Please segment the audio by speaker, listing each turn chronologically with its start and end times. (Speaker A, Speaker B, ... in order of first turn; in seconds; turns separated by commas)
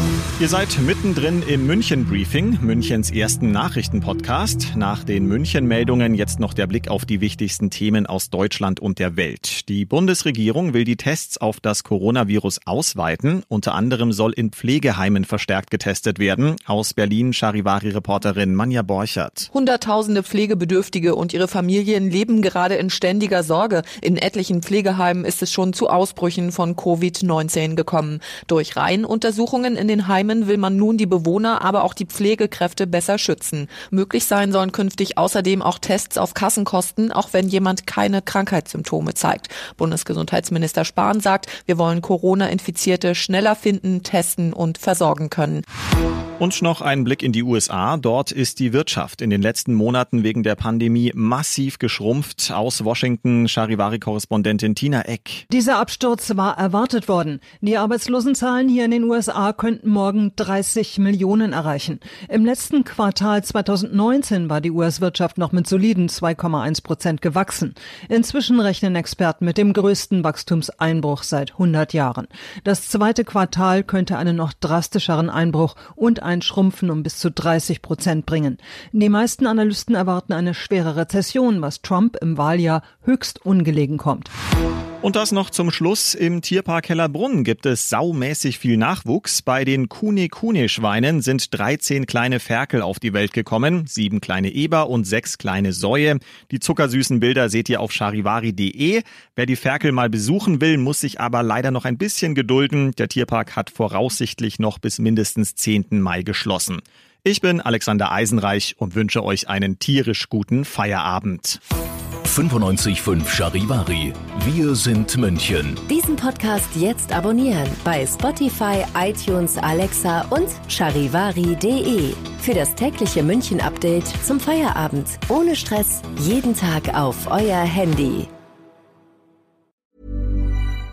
Speaker A: 0.4-19.5, Speaker B: 19.5-45.6, Speaker A: 46.4-55.4, Speaker C: 55.5-84.3, Speaker A: 85.0-111.6, Speaker D: 112.2-115.8, Speaker E: 115.9-128.3